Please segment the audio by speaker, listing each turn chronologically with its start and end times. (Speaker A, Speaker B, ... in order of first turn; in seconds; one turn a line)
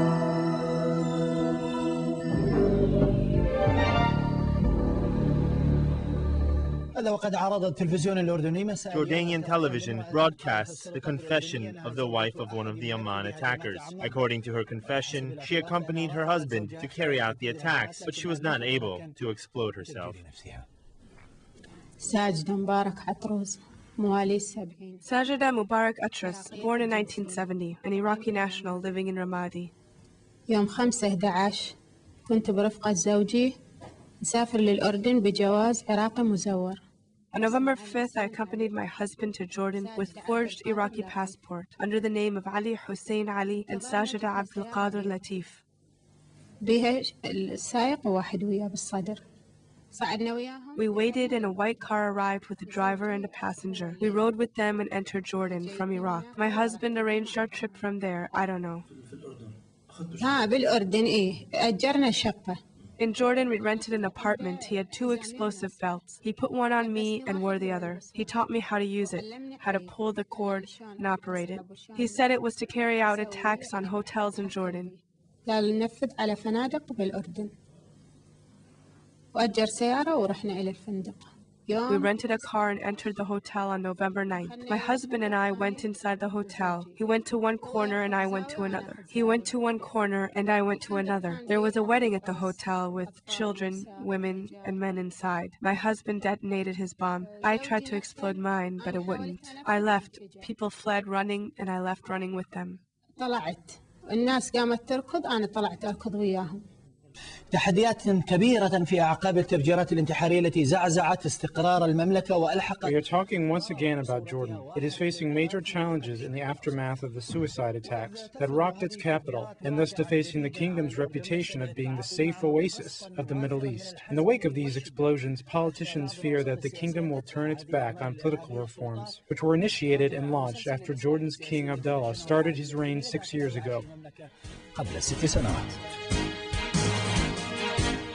Speaker A: 6.9-9.1
Speaker B: 8.9-20.2
Speaker C: 22.0-25.0
Speaker D: 25.0-29.7
Speaker C: 26.1-27.5
Speaker C: 28.1-28.6
Speaker C: 30.5-31.8
Speaker C: 32.3-33.6
Speaker C: 34.2-36.8
Speaker D: 37.3-45.6
Speaker C: 37.4-38.6
Speaker C: 39.6-41.4
Speaker C: 43.4-45.2
Speaker C: 46.6-49.2
Speaker C: 49.9-51.5
Speaker D: 50.8-58.9
Speaker C: 52.6-54.3
Speaker C: 55.4-57.4
Speaker C: 60.1-62.6
Speaker D: 63.0-74.9
Speaker C: 63.3-66.0
Speaker C: 66.6-72.3
Speaker C: 72.9-77.5
Speaker C: 79.3-82.6
Speaker D: 81.9-102.8
Speaker C: 84.3-89.8
Speaker C: 90.6-94.8
Speaker C: 97.2-100.5
Speaker C: 103.2-106.6
Speaker A: 107.5-113.0
Speaker E: 112.8-133.9
Speaker A: 134.7-135.7